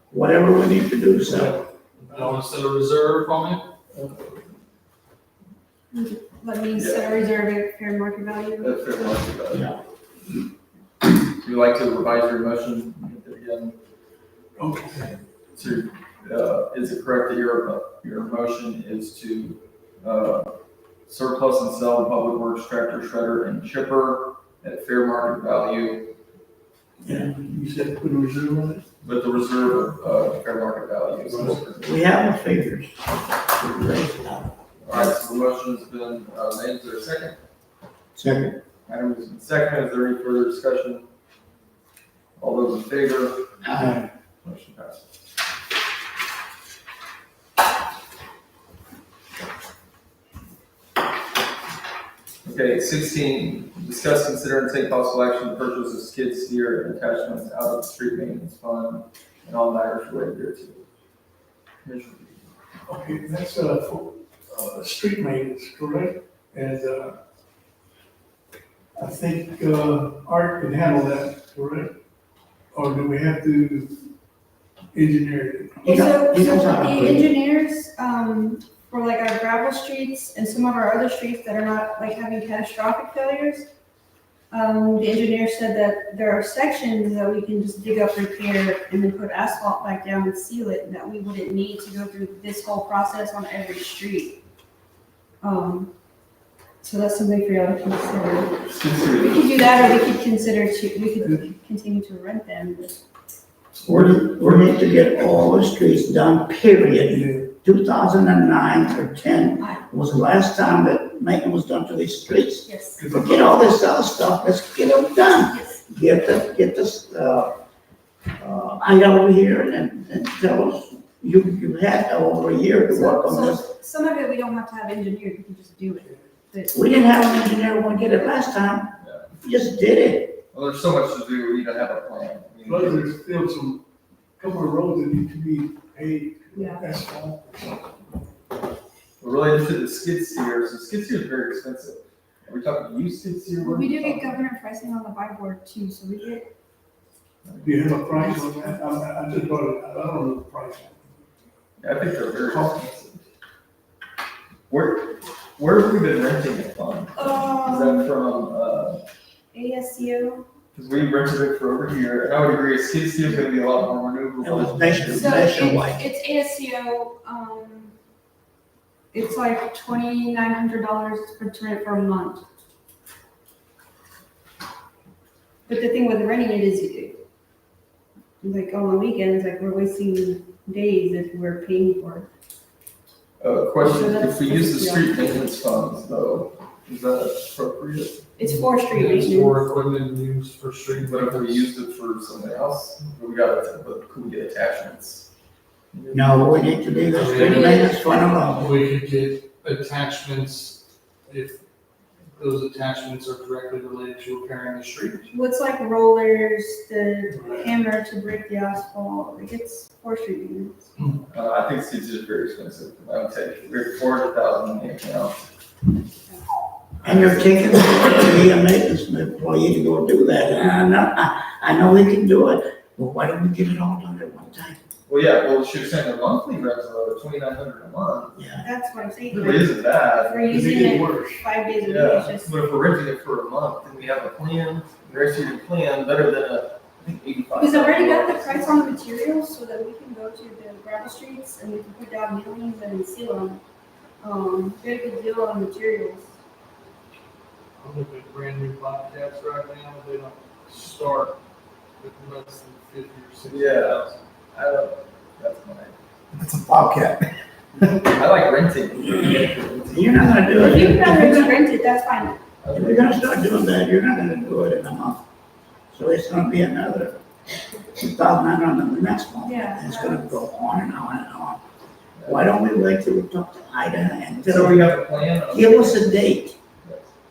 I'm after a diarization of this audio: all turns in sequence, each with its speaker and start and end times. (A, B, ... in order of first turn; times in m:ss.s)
0:00.1-0:01.6 A
0:01.2-0:02.4 B
0:02.0-0:03.6 C
0:03.9-0:04.4 B
0:05.9-0:08.7 D
0:06.7-0:07.1 E
0:08.6-0:09.7 E
0:11.4-0:13.8 E
0:14.6-0:15.2 B
0:15.6-0:20.5 E
0:21.1-0:26.1 E
0:27.0-0:28.8 B
0:29.0-0:31.9 E
0:31.2-0:31.6 B
0:31.8-0:33.0 A
0:33.6-0:34.1 E
0:34.0-0:35.1 A
0:34.8-0:37.3 E
0:38.2-0:38.6 A
0:38.8-0:41.0 E
0:42.4-0:43.6 E
0:43.6-0:44.0 A
0:44.4-0:45.0 E
0:52.4-1:00.8 E
1:01.8-1:02.5 E
1:02.9-1:07.2 B
1:09.0-1:11.9 B
1:12.7-1:13.9 B
1:14.9-1:15.8 B
1:15.8-1:17.3 A
1:15.8-1:23.7 D
1:24.5-1:34.4 D
1:35.4-1:35.9 D
1:36.8-1:43.0 D
1:38.6-1:40.0 E
1:43.8-1:57.5 A
1:43.9-1:44.6 B
1:47.1-1:47.5 B
1:49.6-1:49.8 D
1:52.6-1:53.0 D
1:53.0-1:53.7 B
1:55.5-1:55.8 D
1:58.4-2:03.6 A
2:02.9-2:07.0 D
2:06.7-2:10.4 A
2:09.0-2:09.3 E
2:10.5-2:13.1 E
2:12.6-2:13.8 B
2:14.4-2:17.8 B
2:16.5-2:16.9 D
2:19.2-2:24.4 E
2:23.6-2:26.5 D
2:27.4-2:28.0 E
2:27.6-2:31.0 B
2:31.8-2:33.2 E
2:32.4-2:32.8 B
2:34.7-2:39.0 E
2:37.2-2:38.1 D
2:39.5-2:40.5 D
2:40.7-2:45.4 E
2:44.4-2:46.0 A
2:45.1-2:47.9 D
2:49.1-2:52.4 D
2:55.7-2:57.2 D
2:58.4-3:02.3 D
3:03.4-3:08.2 E
3:03.8-3:05.3 D
3:08.4-3:09.6 D
3:08.4-3:11.7 C
3:11.0-3:15.3 E
3:15.9-3:16.4 E
3:16.1-3:18.7 A
3:17.1-3:17.8 C
3:17.4-3:18.0 D
3:18.5-3:21.6 C
3:22.4-3:25.3 C
3:25.3-3:30.9 D
3:27.3-3:27.7 B
3:31.3-3:35.4 E
3:37.0-3:37.5 E
3:37.0-3:44.8 A
3:45.1-3:48.3 E
3:48.4-3:48.6 A
3:48.6-3:52.5 D
3:49.3-3:51.0 E
3:50.4-3:51.4 B
3:51.8-3:59.0 E
3:57.5-4:03.6 D
4:04.2-4:06.3 D
4:07.8-4:11.4 C
4:12.0-4:14.2 C
4:13.4-4:16.0 E
4:16.3-4:17.2 A
4:17.8-4:20.5 E
4:19.9-4:21.6 A
4:20.6-4:22.4 D
4:22.6-4:23.3 E
4:22.7-4:25.2 A
4:25.9-4:27.2 A
4:27.9-4:31.6 A
4:29.4-4:30.4 D
4:32.2-4:32.5 E
4:32.2-4:34.9 A
4:34.4-4:36.2 E
4:35.5-4:36.6 A
4:36.8-4:37.1 E